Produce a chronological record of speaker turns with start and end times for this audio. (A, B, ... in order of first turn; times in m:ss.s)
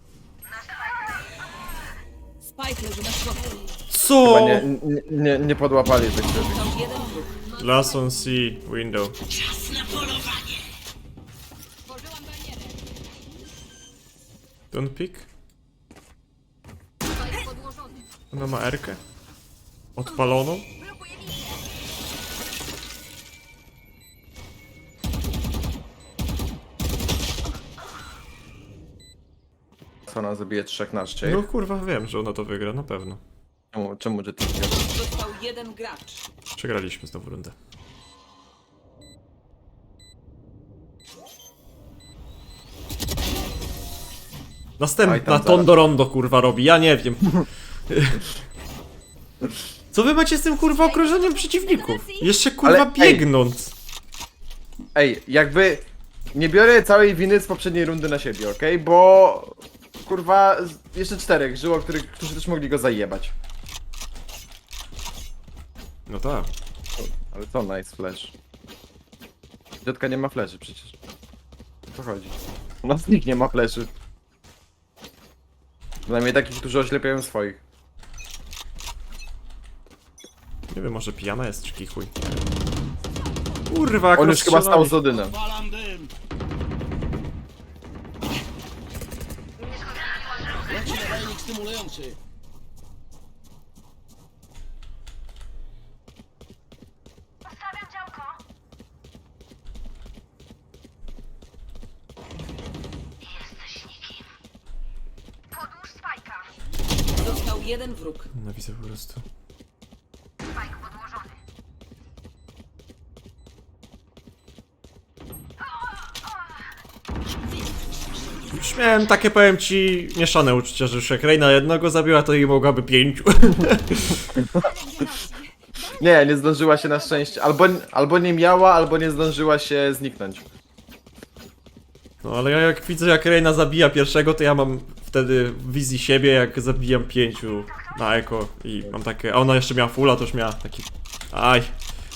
0:02.4-0:03.7 A
0:03.9-0:04.7 B
0:04.2-0:06.6 C
0:06.2-0:07.4 A
0:07.4-0:08.1 D
0:07.6-0:09.2 B
0:09.7-0:10.3 A
0:11.8-0:12.8 D
0:14.7-0:15.3 B
0:17.1-0:18.1 D
0:18.3-0:19.0 B
0:20.0-0:20.7 B
0:20.8-0:21.6 D
0:30.1-0:31.4 C
0:31.2-0:33.2 B
0:33.7-0:34.8 C
0:34.7-0:36.2 A
0:36.6-0:37.6 B
0:44.8-0:48.3 B
0:45.0-0:45.7 C
0:49.9-0:53.7 B
0:50.7-0:52.3 D
0:52.6-0:53.2 C
0:55.0-1:03.3 C
1:06.1-1:06.5 B
1:07.0-1:08.3 C
1:09.8-1:11.0 C
1:11.9-1:13.9 C
1:16.1-1:17.6 C
1:20.7-1:22.3 B
1:23.7-1:25.0 B
1:24.1-1:25.4 C
1:25.0-1:26.1 E
1:30.7-1:32.2 E
1:45.8-1:46.1 D
1:47.2-1:48.3 A
1:48.3-1:49.2 B
1:58.5-2:04.2 B
2:04.4-2:04.7 C
2:04.5-2:07.6 D
2:06.0-2:10.5 C
2:12.2-2:21.7 B